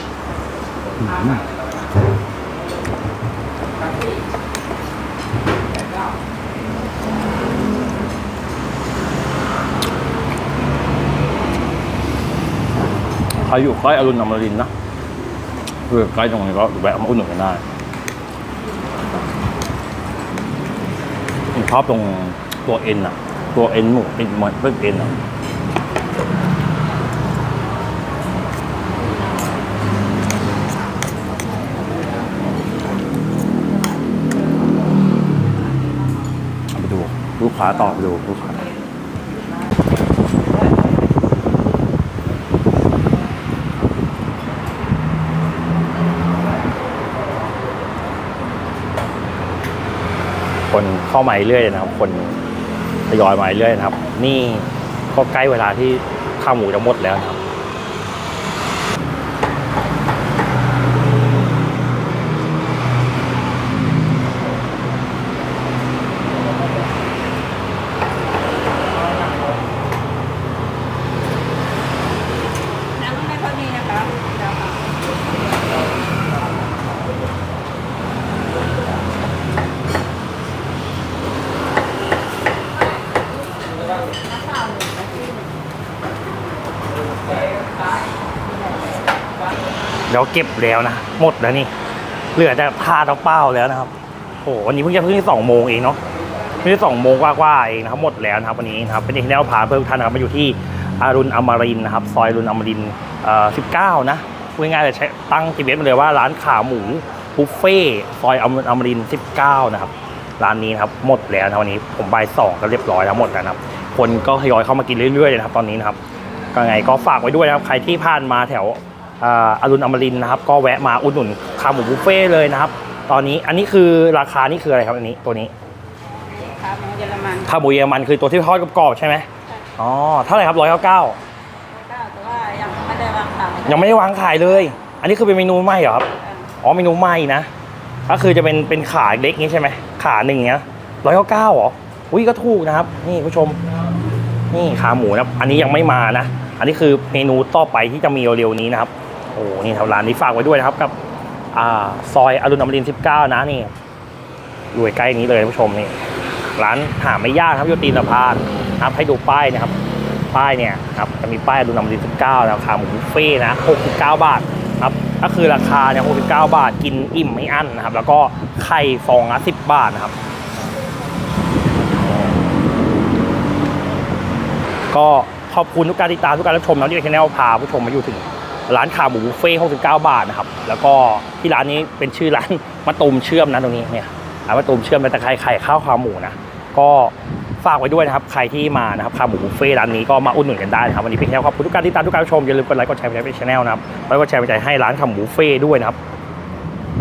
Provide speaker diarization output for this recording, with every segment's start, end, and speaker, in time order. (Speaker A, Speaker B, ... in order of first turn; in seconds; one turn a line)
Speaker A: 1.0-1.4
Speaker A: 13.4-14.7
Speaker A: 15.9-17.6
Speaker A: 21.5-25.1
Speaker A: 36.7-38.6
Speaker A: 50.7-52.4
Speaker A: 53.1-57.4
Speaker B: 73.0-75.0
Speaker B: 84.3-85.5
Speaker A: 90.1-91.7
Speaker A: 92.3-96.0
Speaker A: 96.6-116.0
Speaker A: 116.5-125.5
Speaker B: 126.1-127.4
Speaker A: 127.4-131.2
Speaker B: 131.7-133.7
Speaker A: 133.7-136.1
Speaker B: 136.2-136.5
Speaker A: 136.6-137.5
Speaker A: 138.1-143.6
Speaker A: 144.5-150.9
Speaker A: 151.5-153.7
Speaker A: 154.7-155.9
Speaker A: 156.6-159.7
Speaker A: 160.3-170.1
Speaker A: 174.9-196.0